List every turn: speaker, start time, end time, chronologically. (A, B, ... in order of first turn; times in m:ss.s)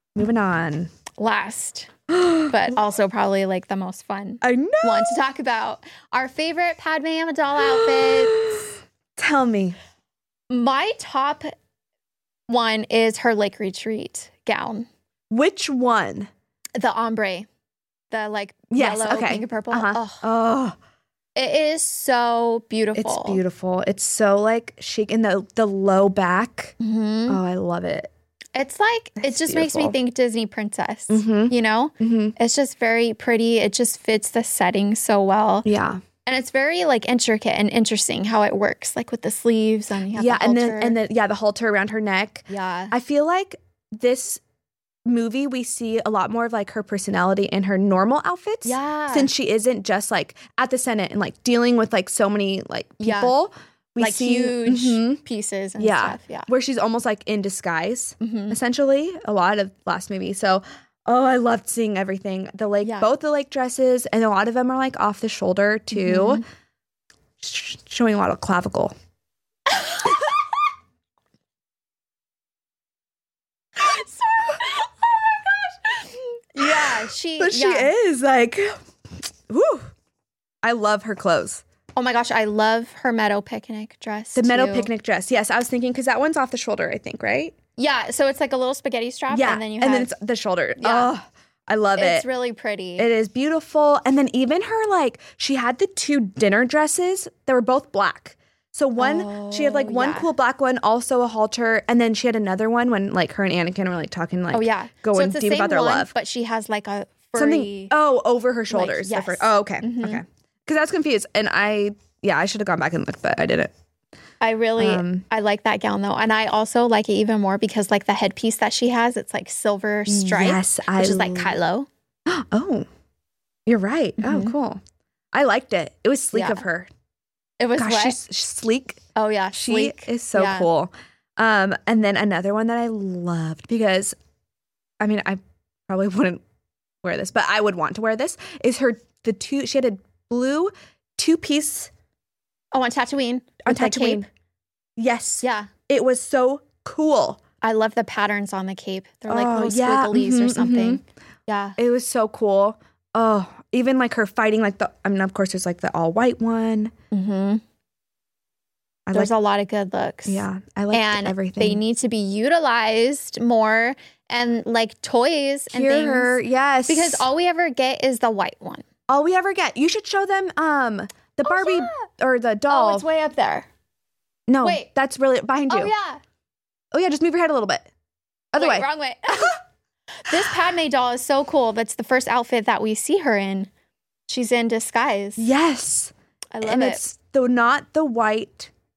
0:00.1-0:00.9 A
0:01.2-0:01.9 B
0:02.1-0:02.8 A
0:02.5-0:08.7 B
0:04.4-0:05.2 A
0:07.7-0:09.8 A
0:10.5-0:11.5 B
0:12.5-0:14.9 B
0:15.3-0:16.3 A
0:16.8-0:17.5 B
0:18.1-0:20.2 B
0:18.7-0:20.8 A
0:21.4-0:23.4 B
0:22.9-0:26.7 A
0:26.8-0:27.4 B
0:27.3-0:28.1 A
0:28.5-0:35.6 B
0:29.2-0:29.9 A
0:31.1-0:32.3 A
0:35.6-0:36.0 A
0:36.2-0:41.0 B
0:40.1-0:44.4 A
0:42.5-0:42.9 B
0:45.0-0:55.2 A
0:48.6-0:49.3 B
0:53.0-0:53.3 B
0:54.0-0:56.5 B
0:55.8-1:06.4 A
0:58.2-0:58.6 B
1:02.8-1:03.1 B
1:05.9-1:06.4 B
1:07.4-1:08.9 A
1:09.7-1:10.4 B
1:13.8-1:17.9 B
1:16.6-1:18.8 A
1:19.5-1:19.9 A
1:20.6-1:21.6 A
1:22.0-1:24.9 B
1:24.3-1:27.5 A
1:27.8-1:30.1 B
1:29.3-1:32.2 A
1:30.8-1:31.1 B
1:32.0-1:33.1 B
1:33.0-1:46.1 A
1:39.0-1:40.3 B
1:44.5-1:47.9 B
1:47.4-1:53.7 A
1:48.7-1:50.2 B
1:54.4-2:01.9 B
1:54.8-1:55.2 A
2:00.1-2:01.6 A
2:02.3-2:02.9 A
2:03.6-2:04.8 A
2:04.2-2:04.5 B
2:05.3-2:06.9 A
2:06.3-2:06.6 B
2:07.6-2:08.2 B
2:07.8-2:09.0 A
2:09.1-2:10.7 B
2:09.5-2:14.1 A
2:15.0-2:16.4 A
2:17.0-2:21.9 A
2:22.7-2:24.3 B
2:23.6-2:24.3 A
2:25.0-2:27.4 A
2:25.4-2:25.7 B
2:27.6-2:31.8 B
2:29.3-2:31.0 A
2:31.8-2:36.9 A
2:37.1-2:37.6 B
2:39.1-2:48.8 B
2:40.3-2:41.8 A
2:45.7-2:47.3 A
2:49.1-2:53.0 A
2:51.4-2:52.1 B
2:52.7-2:53.7 B
2:54.5-2:55.9 A
2:54.6-2:54.9 B
2:55.7-2:56.2 B
2:56.9-2:57.9 A
2:58.5-2:59.5 A
2:58.5-2:59.6 B
3:00.2-3:03.7 B
3:04.3-3:05.5 B
3:05.4-3:08.7 A
3:06.5-3:07.0 B